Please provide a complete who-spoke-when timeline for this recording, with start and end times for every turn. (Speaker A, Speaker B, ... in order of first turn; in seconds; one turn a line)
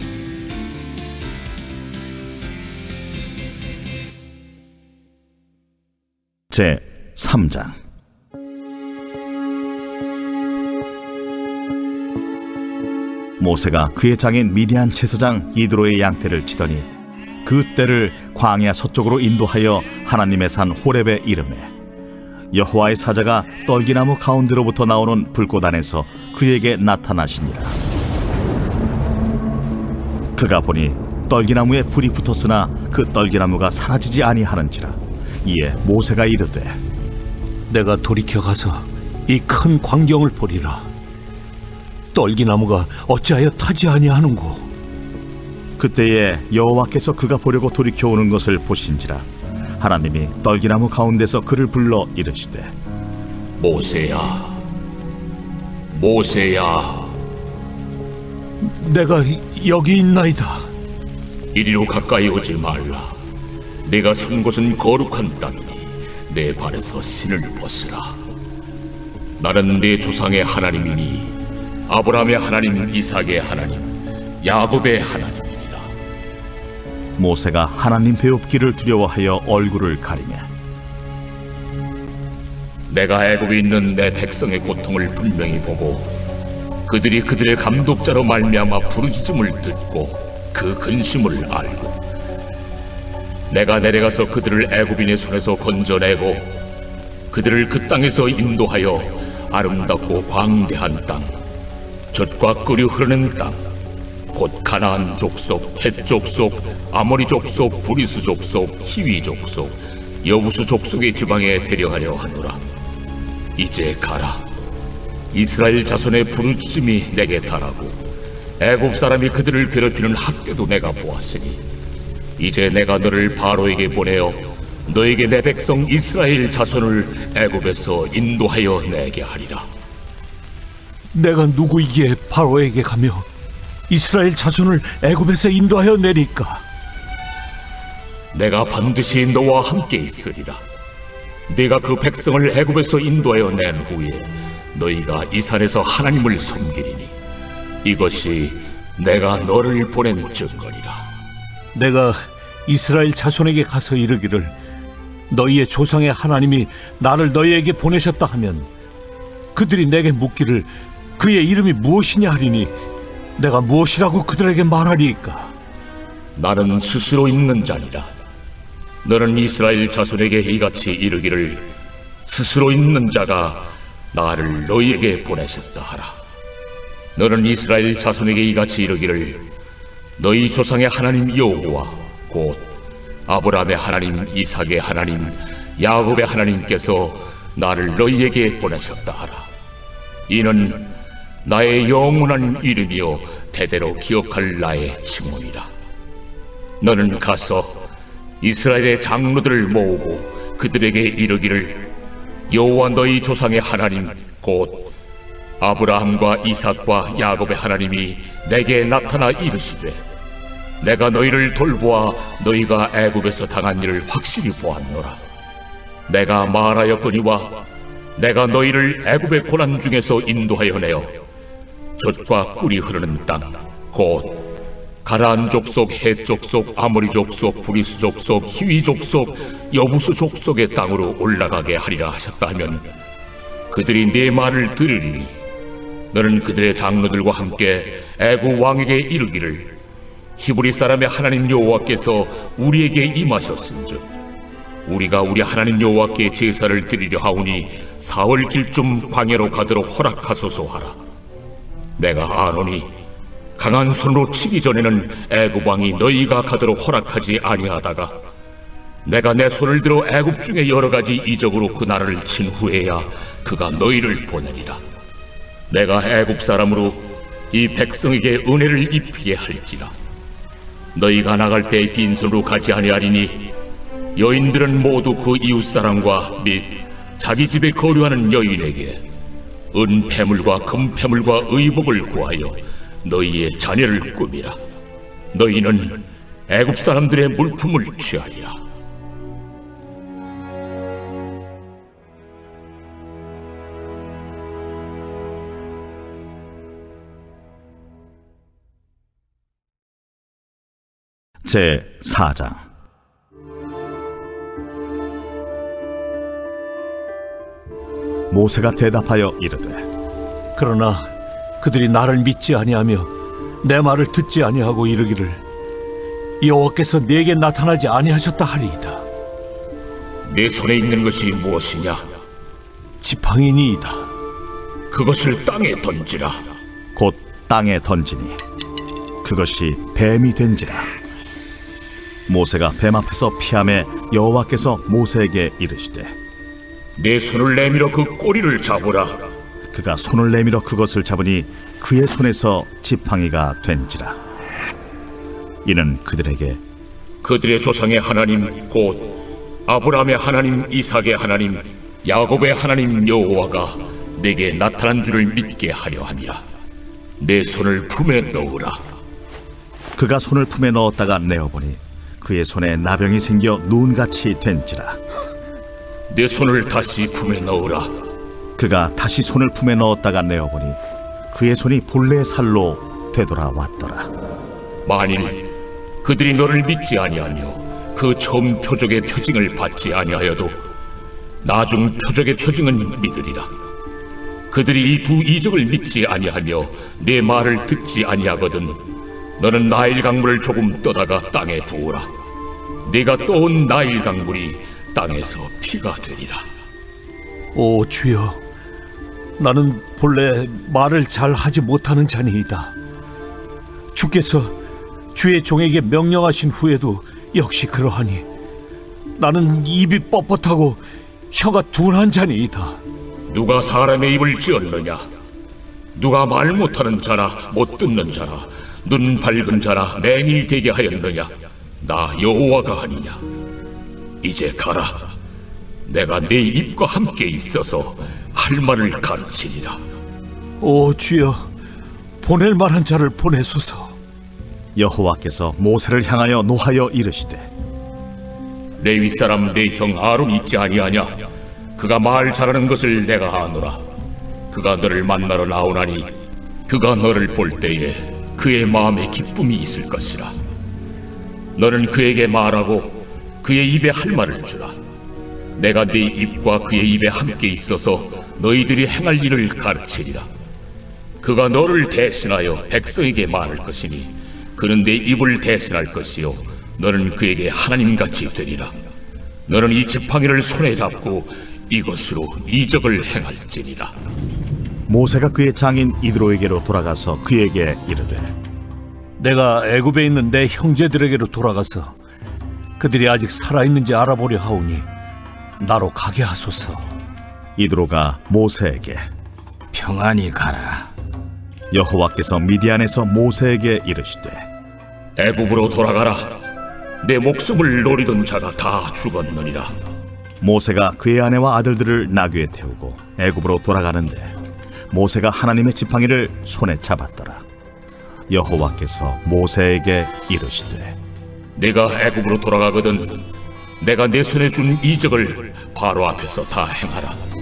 Speaker A: 6.5-7.8
Speaker A: 13.4-16.9
Speaker A: 17.4-21.7
Speaker A: 22.5-27.8
Speaker A: 30.4-36.8
Speaker B: 37.7-40.9
Speaker B: 42.1-44.7
Speaker A: 45.8-49.3
Speaker A: 49.8-52.7
Speaker C: 53.6-54.5
Speaker C: 55.9-57.1
Speaker B: 58.6-60.7
Speaker C: 61.5-63.1
Speaker C: 63.9-68.1
Speaker C: 69.4-71.3
Speaker C: 71.9-75.9
Speaker A: 77.2-80.5
Speaker C: 82.9-86.1
Speaker C: 86.9-92.0
Speaker C: 93.5-96.5
Speaker C: 97.3-101.3
Speaker C: 102.1-103.6
Speaker C: 104.3-112.6
Speaker C: 113.6-114.4
Speaker C: 115.3-118.0
Speaker C: 118.6-121.6
Speaker C: 122.4-129.7
Speaker B: 131.1-133.3
Speaker B: 133.9-136.6
Speaker C: 138.3-140.6
Speaker C: 141.5-147.1
Speaker C: 147.8-151.1
Speaker B: 151.8-154.6
Speaker B: 155.3-158.7
Speaker B: 159.6-162.7
Speaker B: 163.4-165.6
Speaker C: 166.4-168.1
Speaker C: 169.0-171.7
Speaker C: 172.2-176.2
Speaker C: 177.2-179.5
Speaker C: 180.2-182.7
Speaker C: 183.3-189.5
Speaker C: 190.3-190.9
Speaker C: 191.4-195.7
Speaker C: 196.8-197.8
Speaker C: 198.4-201.9
Speaker C: 202.5-204.9
Speaker C: 205.6-210.0
Speaker C: 210.8-215.2
Speaker C: 216.1-217.6
Speaker C: 218.2-221.1
Speaker C: 222.0-224.4
Speaker C: 225.1-232.9
Speaker C: 233.7-235.4
Speaker C: 236.1-239.7
Speaker C: 240.4-244.1
Speaker C: 244.9-251.0
Speaker C: 252.0-252.9
Speaker C: 253.6-258.2
Speaker C: 259.1-264.8
Speaker C: 265.7-269.9
Speaker C: 270.9-273.5
Speaker C: 274.2-279.0
Speaker C: 279.7-284.6
Speaker C: 285.3-288.6
Speaker A: 301.4-302.6
Speaker A: 308.3-309.9
Speaker B: 310.6-311.1
Speaker B: 311.6-315.4
Speaker B: 316.4-319.1
Speaker C: 320.3-322.0
Speaker B: 323.0-324.1
Speaker C: 324.9-326.4
Speaker A: 326.9-328.4
Speaker A: 329.2-330.9
Speaker A: 332.3-336.2
Speaker C: 337.0-339.3
Speaker A: 339.7-344.2
Speaker A: 345.6-346.6
Speaker C: 347.2-349.1
Speaker C: 349.7-356.4
Speaker C: 357.2-358.8
Speaker A: 360.0-365.0
Speaker C: 366.1-367.9
Speaker A: 368.6-370.8
Speaker A: 371.3-374.1
Speaker C: 374.9-375.4
Speaker C: 376.0-380.6
Speaker C: 381.4-383.5
Speaker C: 384.5-388.8
Speaker C: 389.4-392.1
Speaker C: 392.9-396.4
Speaker B: 397.5-398.4
Speaker B: 399.4-402.7
Speaker B: 403.9-404.6
Speaker B: 405.1-408.3
Speaker B: 409.2-412.8
Speaker C: 413.3-415.1
Speaker C: 415.9-423.2
Speaker C: 424.2-425.1
Speaker C: 425.9-429.8
Speaker B: 430.6-431.5
Speaker B: 432.2-434.0
Speaker A: 434.8-437.5
Speaker C: 438.8-441.2
Speaker C: 441.8-443.8
Speaker C: 444.5-446.1
Speaker C: 446.7-450.4
Speaker C: 451.6-454.8
Speaker C: 455.6-460.3
Speaker C: 461.2-468.7
Speaker C: 469.5-473.9
Speaker A: 474.9-478.3
Speaker B: 479.2-482.0
Speaker B: 482.8-484.9
Speaker B: 485.6-486.9
Speaker A: 487.6-489.0
Speaker B: 489.8-490.8
Speaker A: 491.7-494.4
Speaker C: 495.2-496.4
Speaker C: 497.0-499.8
Speaker A: 500.4-504.3
Speaker A: 504.9-507.4
Speaker A: 508.3-511.0
Speaker C: 511.6-513.2
Speaker C: 513.8-517.2